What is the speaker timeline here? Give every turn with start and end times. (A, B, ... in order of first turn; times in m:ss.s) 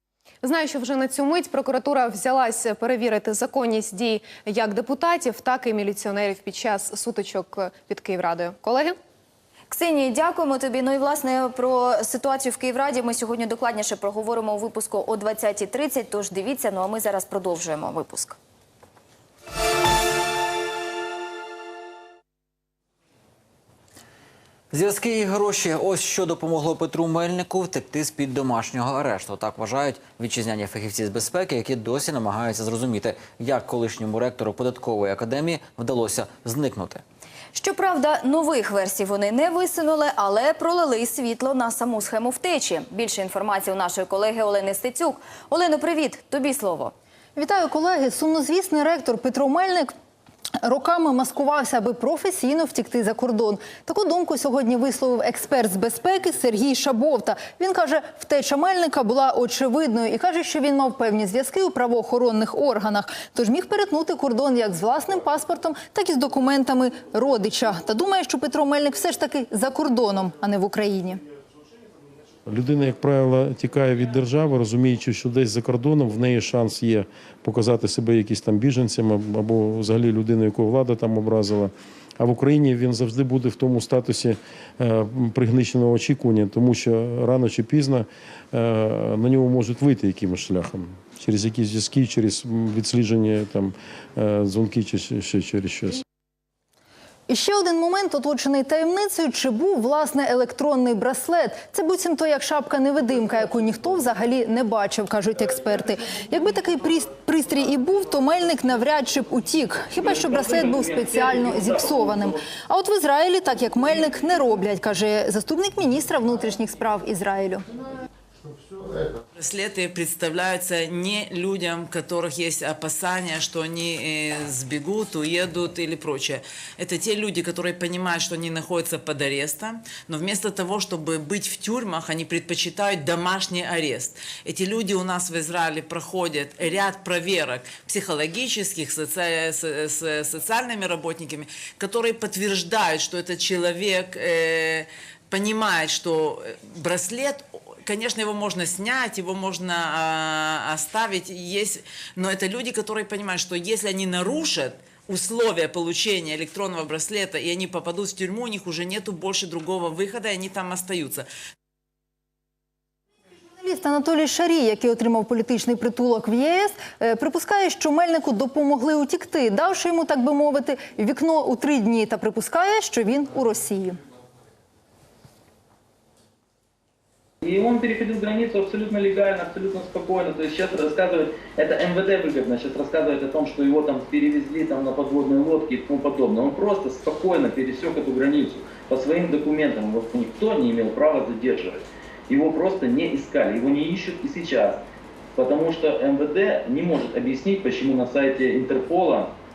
0:00.4-0:09.0 A
0:09.7-0:18.4 B
0:24.7-0:37.0 C
0:37.5-0:46.9 B
0:47.4-0:49.9 D
0:50.6-1:11.2 D
1:12.5-1:36.0 E
1:37.3-1:57.6 D
1:50.0-1:52.0 F
1:59.3-2:41.3 G
2:43.5-2:54.0 D
2:57.4-3:14.8 F
3:15.4-3:19.3 F